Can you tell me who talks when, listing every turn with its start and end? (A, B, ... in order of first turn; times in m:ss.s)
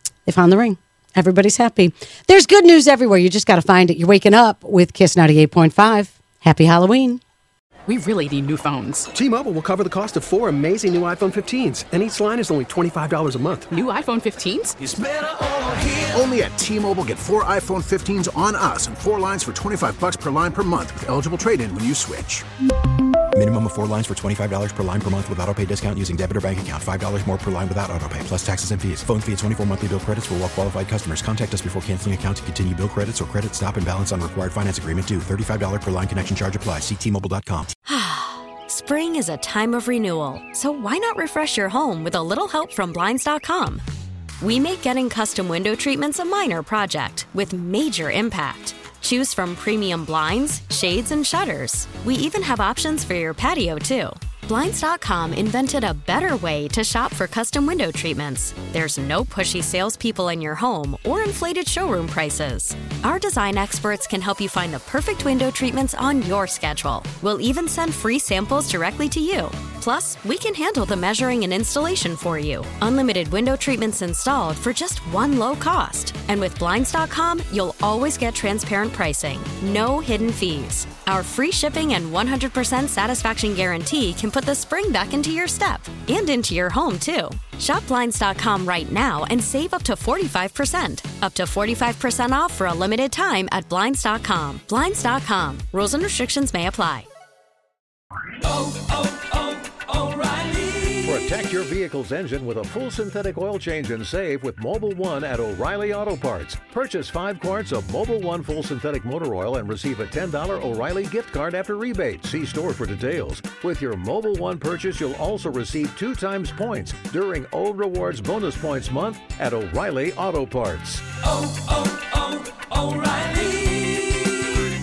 0:00.3-0:07.2 A
0:07.9-0:09.1 B
0:09.3-0:13.6 C
0:13.7-0:14.8 B
0:14.8-0:22.4 D
0:23.3-0:37.7 E
0:37.9-0:43.8 F
0:44.4-1:37.1 F
1:41.0-2:01.0 G